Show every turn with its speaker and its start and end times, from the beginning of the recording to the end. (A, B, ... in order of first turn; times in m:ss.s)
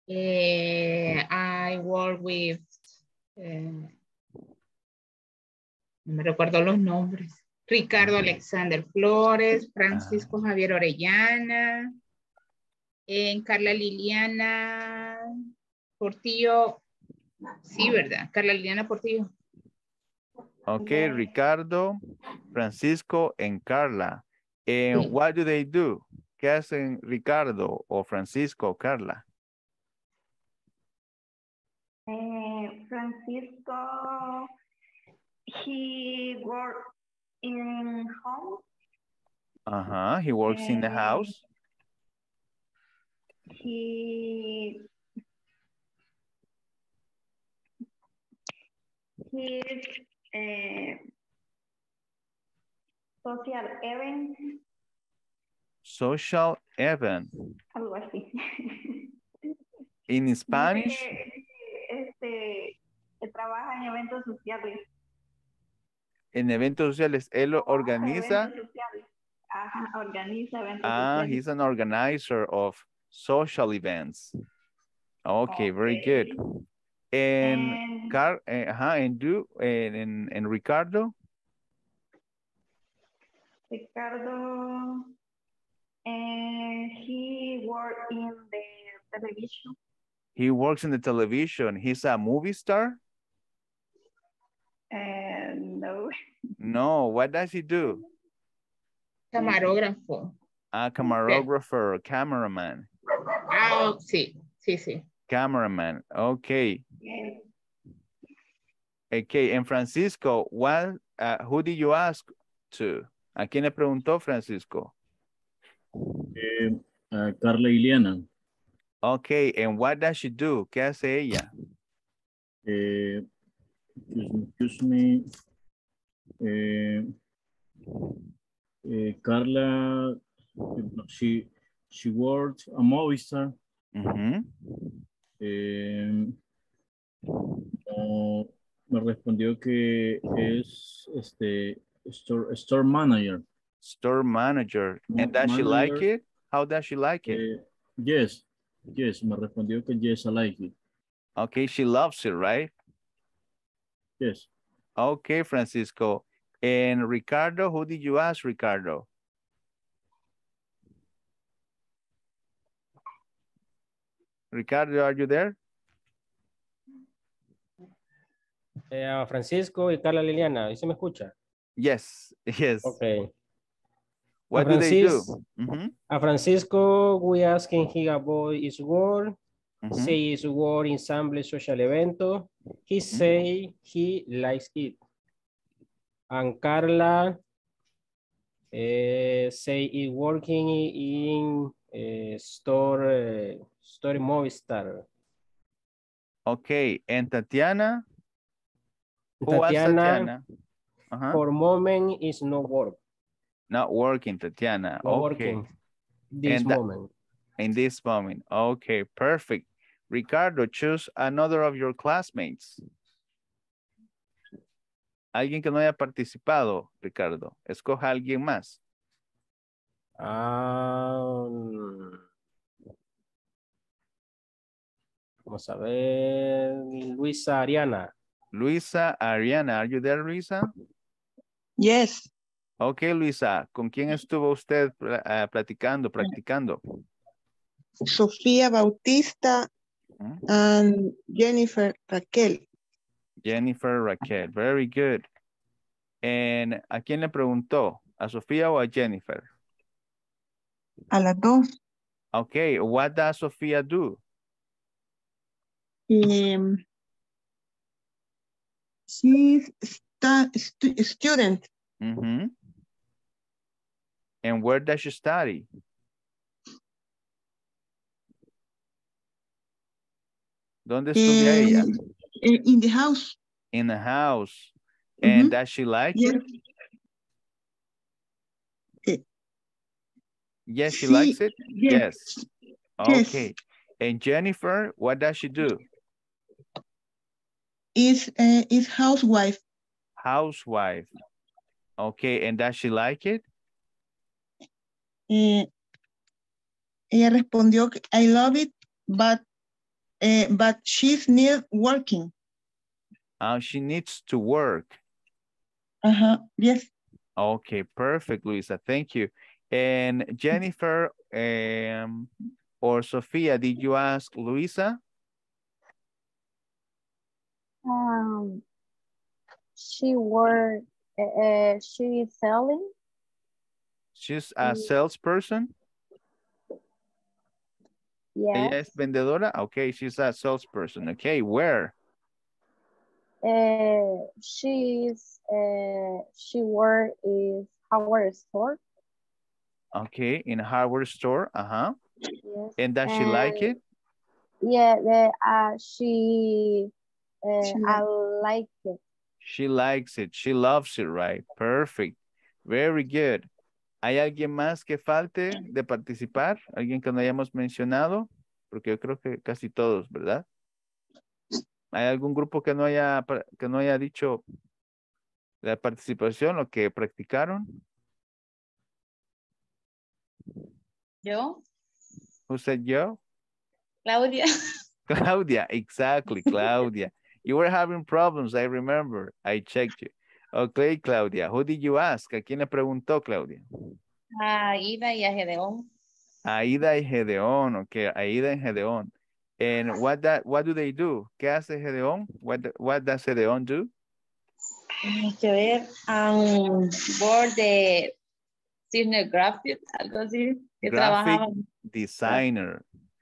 0:00.1-0:02.7 A
0:03.4-0:03.9 A
0:06.1-0:11.9 A
0:09.9-0:10.3 B
0:13.1-0:15.2 A
0:16.0-0:16.8 A
0:17.7-0:19.3 A
0:20.7-0:22.0 B
0:20.8-0:21.3 C
0:22.5-0:29.2 B
0:32.1-0:34.5 C
0:35.6-0:36.8 C
0:37.4-0:38.6 C
0:39.7-0:41.4 B
0:40.5-0:41.3 C
0:43.6-0:44.8 C
0:49.3-0:51.0 C
0:53.2-0:54.3 C
0:55.8-0:57.3 B
0:57.8-0:58.3 C
1:00.1-1:01.1 B
1:00.5-1:01.4 C
1:01.9-1:04.8 C
1:06.3-1:08.5 B
1:07.6-1:09.0 C
1:09.5-1:11.4 C
1:10.8-1:14.3 B
1:15.2-1:16.4 B
1:15.5-1:16.3 C
1:17.1-1:21.1 B
1:17.4-1:18.1 C
1:23.7-1:25.0 C
1:26.1-1:29.7 C
1:30.4-1:33.0 B
1:34.9-1:36.1 C
1:36.6-1:38.0 B
1:39.3-1:40.3 A
1:40.7-1:42.9 B
1:41.2-1:41.4 A
1:43.5-1:45.0 A
1:45.3-1:46.8 B
1:47.0-1:47.4 C
1:49.1-1:54.9 B
1:56.4-1:58.3 D
1:59.0-2:01.5 B
2:02.7-2:03.3 D
2:04.1-2:05.2 D
2:06.4-2:07.1 D
2:08.9-2:10.2 D
2:10.8-2:13.6 D
2:14.0-2:14.5 B
2:15.4-2:16.4 D
2:17.9-2:23.4 D
2:23.8-2:27.4 B
2:25.1-2:26.1 D
2:27.3-2:30.8 D
2:31.4-2:32.7 B
2:34.2-2:34.5 D
2:35.0-2:39.1 B
2:44.5-2:45.6 B
2:48.9-2:51.3 E
2:51.8-2:53.0 B
2:52.8-2:53.3 E
2:54.5-2:55.9 B
2:54.5-2:55.3 E
2:56.1-2:59.4 E
2:59.8-3:00.2 B
2:59.9-3:05.0 E
3:06.3-3:07.4 E
3:08.7-3:15.0 E
3:16.5-3:18.0 B
3:19.4-3:20.3 E
3:19.5-3:20.4 B
3:21.1-3:21.4 B
3:21.3-3:23.0 E
3:23.7-3:25.6 B
3:25.0-3:25.7 E
3:26.3-3:27.1 E
3:26.5-3:26.8 B
3:27.6-3:32.8 B
3:35.3-3:38.8 B
3:40.2-3:42.2 E
3:45.5-3:48.1 E
3:48.5-3:50.7 B
3:51.8-3:52.3 F
3:52.8-3:56.8 B
3:58.1-3:59.7 F
4:00.5-4:02.6 F
4:03.4-4:05.3 B
4:06.2-4:09.5 B
4:11.1-4:11.6 F
4:12.3-4:14.2 B
4:16.1-4:16.8 F
4:19.1-4:21.7 F
4:22.0-4:22.5 B
4:24.4-4:25.7 B
4:30.9-4:31.9 B
4:31.2-4:31.9 F
4:32.4-4:33.4 F
4:33.7-4:36.4 B
4:35.2-4:35.6 F
4:36.2-4:36.4 F
4:40.7-4:42.3 B
4:40.9-4:42.4 F
4:43.0-4:45.8 B
4:43.0-4:43.5 F
4:48.0-4:49.6 F
4:50.2-4:51.1 B
4:52.0-4:53.4 B
4:55.3-4:55.7 F
4:57.1-4:59.4 F
5:00.2-5:02.3 F
5:03.4-5:05.0 B
5:06.0-5:06.9 F
5:07.4-5:12.3 B
5:12.8-5:15.0 B
5:17.8-5:18.6 G
5:19.8-5:22.9 G
5:24.2-5:25.7 B
5:24.6-5:24.9 G
5:28.4-5:28.8 G
5:28.5-5:31.9 B
5:33.4-5:38.8 G
5:40.0-5:42.0 B
5:42.5-5:43.8 G
5:42.8-5:43.8 B
5:44.6-5:46.9 G
5:47.4-5:49.0 G
5:49.4-5:53.5 B
5:54.0-6:00.4 B
6:01.9-6:04.4 B
6:05.6-6:07.8 B
6:11.2-6:11.6 H
6:12.5-6:13.2 B
6:14.1-6:14.4 H
6:15.1-6:23.6 B
6:24.4-6:25.9 H
6:26.4-6:33.9 B
6:35.0-6:38.1 H
6:38.9-6:41.7 H
6:40.9-6:42.8 B